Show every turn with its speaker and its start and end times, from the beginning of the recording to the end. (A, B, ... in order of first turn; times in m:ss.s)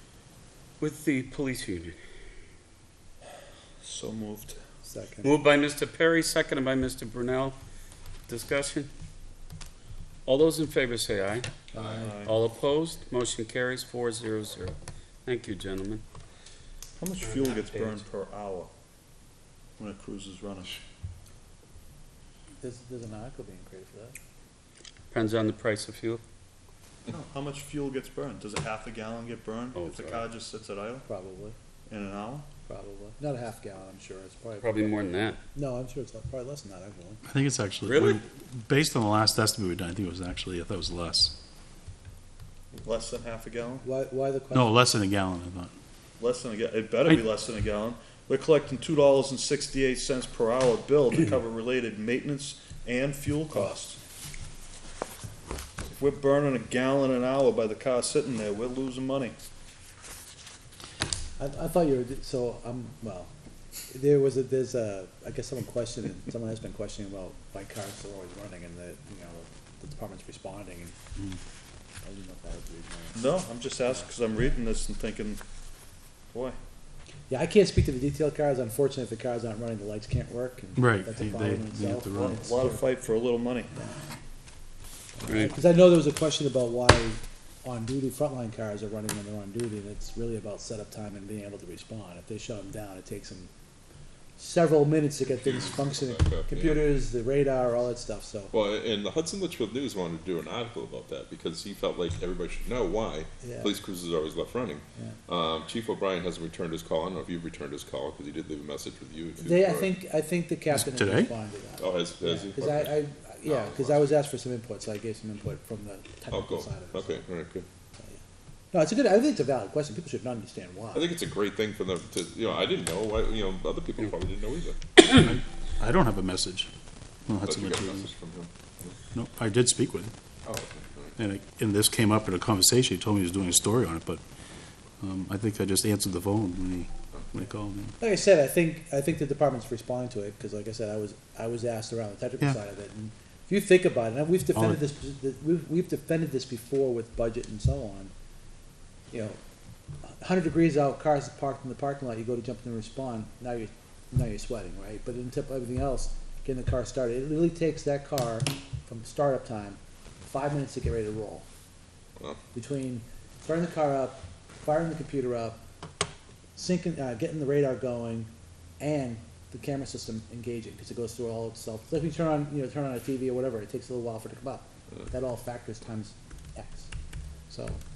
0:00.8-0:02.0 A
0:03.8-0:04.6 B
0:04.8-0:05.3 C
0:05.2-0:07.6 A
0:08.3-0:08.9 A
0:10.3-0:11.5 A
0:11.7-0:12.2 C
0:12.0-0:12.3 B
0:12.1-0:14.8 A
0:15.3-0:16.0 A
0:17.0-0:18.7 B
0:17.2-0:18.0 A
0:19.8-0:20.8 B
0:22.6-0:24.2 C
0:25.1-0:26.2 A
0:27.1-0:31.0 B
0:29.8-0:30.3 A
0:31.0-0:31.6 C
0:31.9-0:32.5 B
0:32.7-0:37.2 C
0:34.6-0:35.4 A
0:37.3-0:41.3 D
0:37.9-0:38.2 B
0:42.8-0:43.8 B
0:43.8-0:44.8 C
0:44.5-0:45.7 D
0:46.2-0:54.0 B
0:56.0-0:59.3 B
1:01.4-1:03.3 C
1:03.9-1:11.0 C
1:12.0-1:13.3 C
1:13.1-1:15.4 B
1:13.8-1:14.1 C
1:17.3-1:22.9 C
1:20.8-1:22.5 D
1:22.1-1:23.7 B
1:25.2-1:33.5 C
1:25.3-1:25.6 A
1:34.4-1:38.5 C
1:35.4-1:36.9 E
1:38.5-1:49.9 E
1:43.4-1:43.7 C
1:49.4-1:57.3 C
1:50.8-1:51.3 D
1:51.8-1:54.1 E
1:56.3-1:57.7 E
1:58.7-2:01.1 C
2:00.9-2:04.8 E
2:05.2-2:06.7 D
2:07.3-2:08.1 D
2:07.4-2:09.0 E
2:09.1-2:10.1 D
2:10.4-2:11.2 E
2:11.2-2:14.2 D
2:15.0-2:17.9 D
2:18.0-2:28.1 C
2:29.1-2:29.4 C
2:30.0-2:41.4 C
2:42.5-2:45.6 C
2:46.6-2:56.9 C
2:57.5-2:57.8 C